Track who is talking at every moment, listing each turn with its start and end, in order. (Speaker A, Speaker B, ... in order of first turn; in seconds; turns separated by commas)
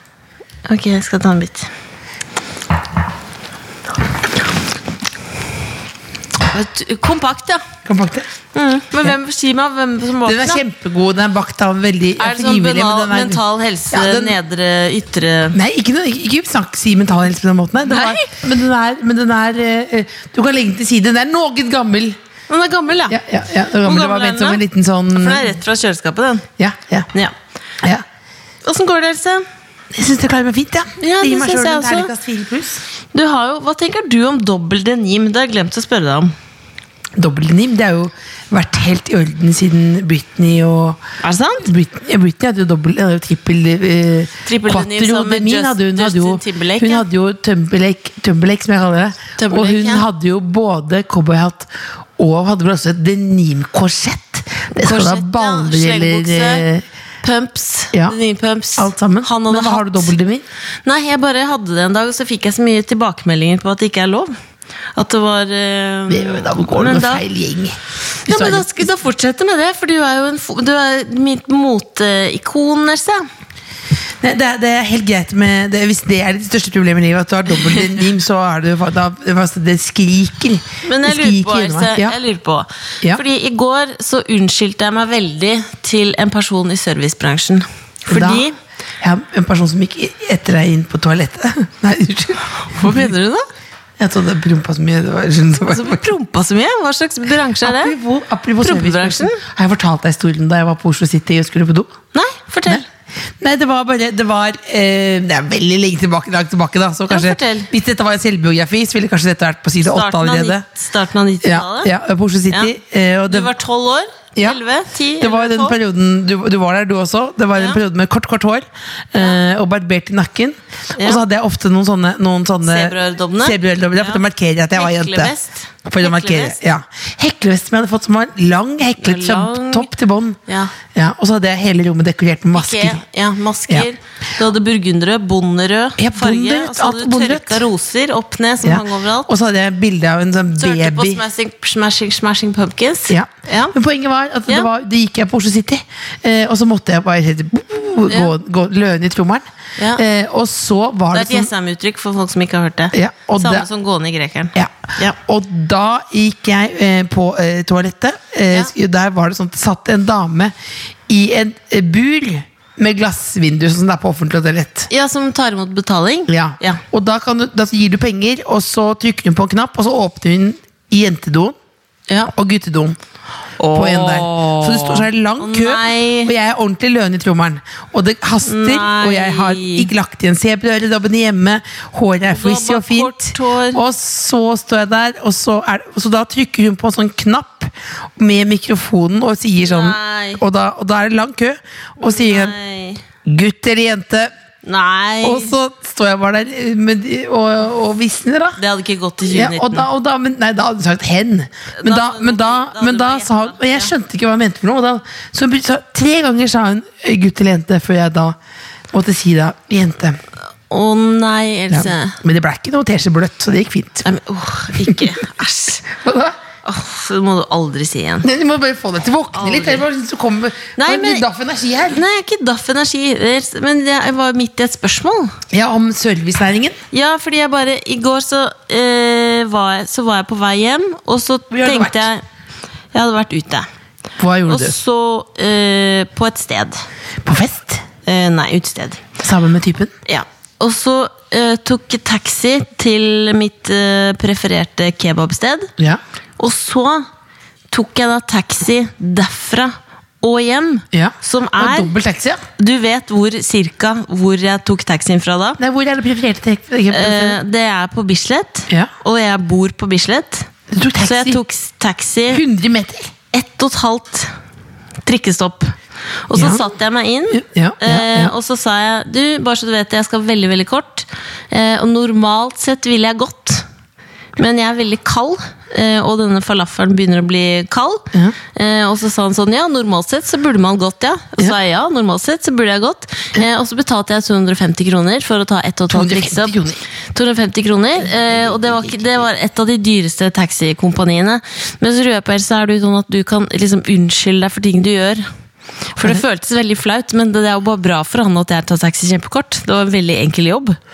Speaker A: 0.7-1.7, Speaker A: 6.5-7.6, Speaker B: 7.8-8.3, Speaker A: 8.5-10.6, Speaker B: 10.2-14.4, Speaker A: 12.2-15.6, Speaker B: 15.5-22.2, Speaker A: 17.9-18.3, Speaker A: 22.5-23.2, Speaker B: 23.1-25.5, Speaker A: 23.8-24.6, Speaker A: 25.1-26.5, Speaker B: 26.6-27.1, Speaker A: 28.6-29.4, Speaker B: 29.9-32.8, Speaker A: 31.0-32.1, Speaker A: 33.1-36.3, Speaker B: 37.2-41.0, Speaker A: 41.2-41.7, Speaker B: 41.6-56.8, Speaker A: 44.5-47.0, Speaker A: 49.4-50.0, Speaker A: 54.7-56.6, Speaker A: 57.2-60.1, Speaker B: 57.9-58.2, Speaker B: 58.8-60.4, Speaker A: 60.8-64.3, Speaker A: 64.9-67.2, Speaker B: 66.1-68.7, Speaker A: 68.2-73.2, Speaker B: 74.2-82.2, Speaker A: 80.8-88.5, Speaker B: 88.1-88.5, Speaker B: 89.0-93.1, Speaker A: 92.6-93.5, Speaker B: 94.0-96.0, Speaker A: 95.7-97.9, Speaker B: 97.6-101.9, Speaker A: 98.6-99.4, Speaker A: 102.1-102.8, Speaker B: 103.4-110.6, Speaker A: 107.1-107.7, Speaker A: 109.8-111.9, Speaker B: 111.4-113.5, Speaker A: 113.3-115.8, Speaker B: 115.2-125.3, Speaker A: 117.5-117.8, Speaker A: 122.6-124.2, Speaker A: 124.8-126.6, Speaker B: 125.8-130.4, Speaker A: 129.0-129.9, Speaker A: 130.5-130.7, Speaker B: 130.9-133.0, Speaker A: 132.5-139.3, Speaker B: 136.0-137.6, Speaker B: 138.6-141.2, Speaker A: 140.6-143.7, Speaker B: 143.1-151.5, Speaker A: 149.8-150.0, Speaker A: 151.1-155.2, Speaker B: 152.9-153.7, Speaker B: 154.5-160.5, Speaker B: 161.1-164.9, Speaker A: 164.9-166.8, Speaker B: 166.3-171.5, Speaker B: 172.3-173.0, Speaker A: 173.6-176.3, Speaker B: 173.7-192.6, Speaker A: 178.4-179.9, Speaker A: 182.3-183.8, Speaker A: 189.6-190.4, Speaker A: 192.0-193.0, Speaker B: 193.2-194.3, Speaker A: 194.6-195.5, Speaker B: 195.2-198.6, Speaker A: 198.6-199.9, Speaker B: 199.2-208.4, Speaker A: 201.8-203.9, Speaker B: 208.9-210.2, Speaker A: 210.7-212.2, Speaker B: 211.7-214.0, Speaker A: 214.0-215.8, Speaker B: 215.9-216.3, Speaker A: 216.6-218.3, Speaker B: 218.2-222.0, Speaker A: 219.3-219.8, Speaker A: 220.8-221.2, Speaker A: 221.9-225.3, Speaker B: 225.5-226.8, Speaker A: 226.9-232.2, Speaker B: 231.5-232.1, Speaker A: 232.9-233.7, Speaker B: 234.2-234.8, Speaker A: 234.5-236.8, Speaker B: 237.2-237.8, Speaker A: 238.0-239.1, Speaker B: 239.2-239.9, Speaker A: 240.1-245.7, Speaker A: 246.4-247.1, Speaker A: 247.7-251.9, Speaker B: 250.9-252.4, Speaker A: 252.6-255.6, Speaker B: 255.6-257.4, Speaker A: 256.9-260.5, Speaker B: 260.7-261.4, Speaker A: 261.0-262.4, Speaker B: 262.3-263.1, Speaker A: 263.3-264.3, Speaker A: 265.1-265.7, Speaker A: 266.3-273.6, Speaker B: 266.3-266.6, Speaker B: 267.3-268.3, Speaker A: 274.4-286.6, Speaker B: 285.9-286.8, Speaker A: 287.1-295.3, Speaker B: 288.0-289.2, Speaker A: 295.9-300.8, Speaker B: 296.0-296.2